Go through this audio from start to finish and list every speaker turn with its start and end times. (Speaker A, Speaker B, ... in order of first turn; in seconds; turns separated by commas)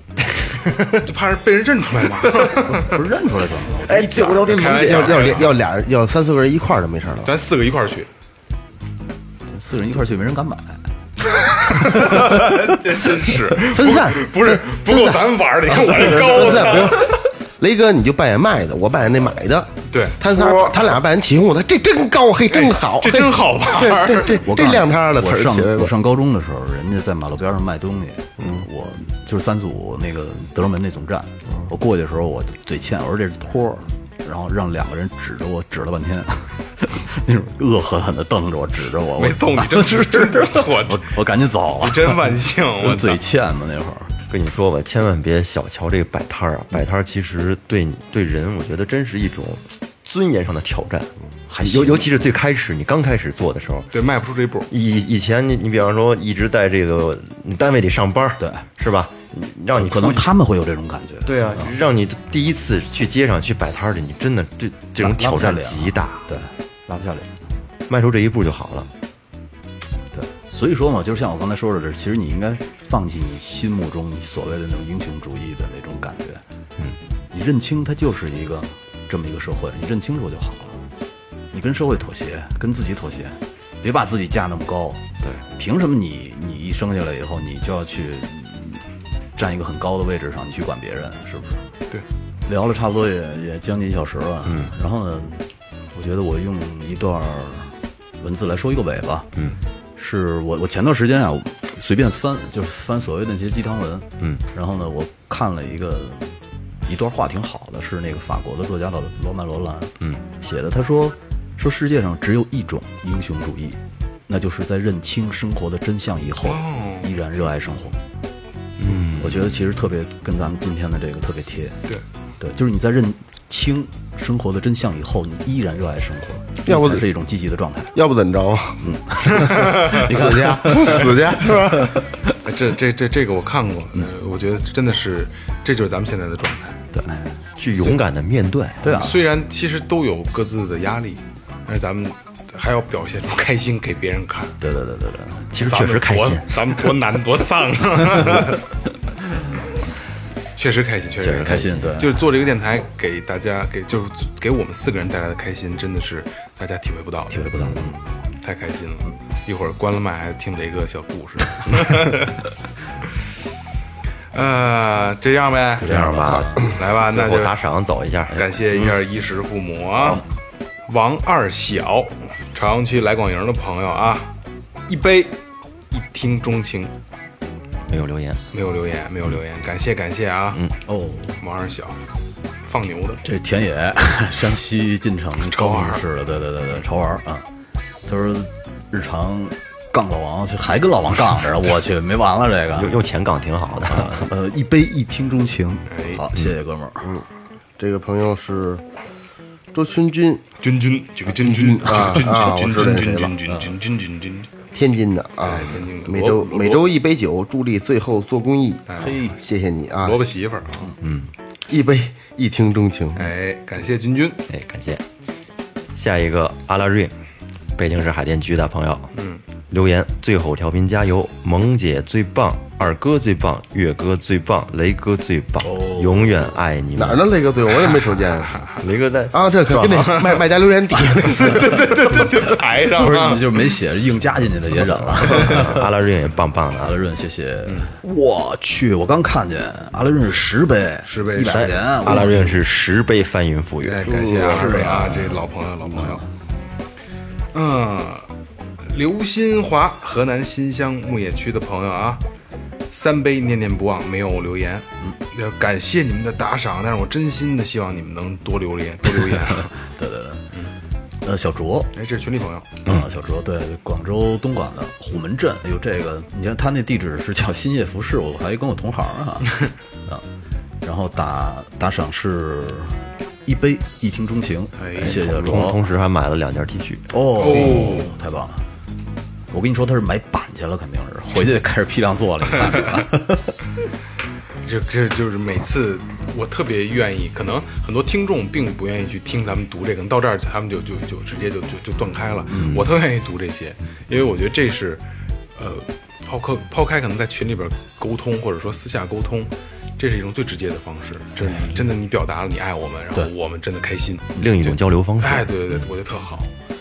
Speaker A: 0.2-1.1, Speaker B: 1.0-2.9, Speaker C: 2.7-4.3, Speaker A: 3.9-5.4, Speaker B: 4.0-5.6, Speaker D: 4.7-7.3, Speaker B: 7.2-8.1, Speaker C: 9.5-10.9, Speaker B: 11.4-17.2, Speaker C: 11.6-12.7, Speaker D: 13.6-15.2, Speaker D: 15.8-25.9, Speaker B: 19.9-20.2, Speaker A: 20.3-21.0, Speaker B: 22.5-24.5, Speaker C: 24.4-44.1, Speaker B: 39.1-41.1, Speaker B: 41.8-43.2, Speaker A: 44.3-53.9, Speaker C: 51.5-52.1, Speaker B: 53.9-54.7, Speaker A: 54.7-60.3, Speaker C: 58.4-58.6, Speaker C: 59.8-61.7, Speaker A: 61.2-66.3, Speaker C: 65.0-67.2, Speaker A: 67.9-68.9, Speaker C: 70.1-76.4, Speaker C: 77.3-80.8, Speaker C: 81.5-85.0, Speaker C: 85.5-88.8, Speaker C: 89.3-91.6, Speaker C: 92.4-99.3, Speaker A: 94.5-94.7, Speaker C: 100.0-118.0, Speaker B: 116.4-117.1, Speaker A: 118.8-119.7, Speaker C: 119.2-121.8, Speaker C: 122.4-127.9, Speaker D: 126.6-127.0, Speaker D: 127.9-132.0, Speaker C: 128.8-132.3, Speaker B: 129.4-130.0, Speaker B: 132.4-136.8, Speaker C: 136.9-137.3, Speaker A: 137.6-138.9, Speaker C: 138.8-139.2, Speaker B: 138.8-144.5, Speaker C: 144.6-145.5, Speaker A: 145.5-146.6, Speaker B: 145.7-148.6, Speaker B: 150.6-157.7, Speaker A: 151.2-151.9, Speaker C: 151.4-152.2, Speaker C: 157.3-158.0, Speaker B: 158.4-162.4, Speaker B: 164.3-165.9, Speaker C: 165.8-166.7, Speaker A: 165.8-168.4, Speaker B: 166.6-167.6, Speaker B: 168.3-170.2, Speaker C: 168.3-168.9, Speaker B: 170.9-174.3, Speaker B: 174.9-175.3, Speaker B: 175.9-176.9, Speaker A: 177.9-178.4, Speaker B: 178.5-180.6, Speaker C: 180.8-181.4, Speaker B: 181.4-182.0, Speaker B: 182.6-183.2, Speaker C: 183.2-187.4, Speaker B: 185.4-186.0, Speaker C: 188.1-193.0, Speaker A: 192.7-194.3, Speaker C: 193.9-197.1, Speaker B: 195.9-196.2, Speaker D: 197.8-198.8, Speaker D: 199.7-200.4, Speaker B: 200.6-204.5, Speaker D: 201.4-203.3, Speaker C: 203.5-203.7, Speaker D: 204.7-210.2, Speaker B: 205.4-206.9, Speaker B: 208.9-209.2, Speaker C: 209.0-209.4, Speaker B: 210.0-210.9, Speaker A: 211.0-211.3, Speaker D: 211.7-213.3, Speaker B: 213.2-214.4, Speaker A: 214.5-215.0, Speaker A: 215.9-217.1, Speaker A: 217.8-219.1, Speaker B: 219.1-219.4, Speaker A: 219.7-227.3, Speaker C: 225.6-226.5, Speaker D: 226.9-228.6, Speaker A: 228.8-230.2, Speaker D: 229.3-231.9, Speaker B: 230.0-230.4, Speaker B: 230.9-233.6, Speaker C: 232.9-235.8, Speaker A: 235.3-236.9, Speaker C: 236.8-242.4, Speaker B: 237.7-237.9, Speaker B: 241.0-242.4, Speaker A: 241.5-245.2, Speaker B: 243.8-246.2, Speaker D: 244.1-244.6, Speaker C: 244.4-246.2, Speaker B: 247.5-248.3, Speaker B: 248.8-252.2, Speaker B: 252.9-259.7, Speaker C: 259.4-260.5, Speaker C: 261.2-261.9, Speaker B: 261.9-262.8, Speaker C: 262.9-270.2, Speaker C: 270.8-275.8, Speaker B: 274.8-275.2, Speaker A: 275.0-277.1, Speaker C: 277.1-278.6, Speaker B: 277.4-278.1, Speaker C: 279.5-283.6, Speaker B: 284.6-295.0, Speaker C: 292.5-292.9, Speaker B: 295.6-306.5, Speaker C: 301.5-301.8, Speaker A: 304.4-305.5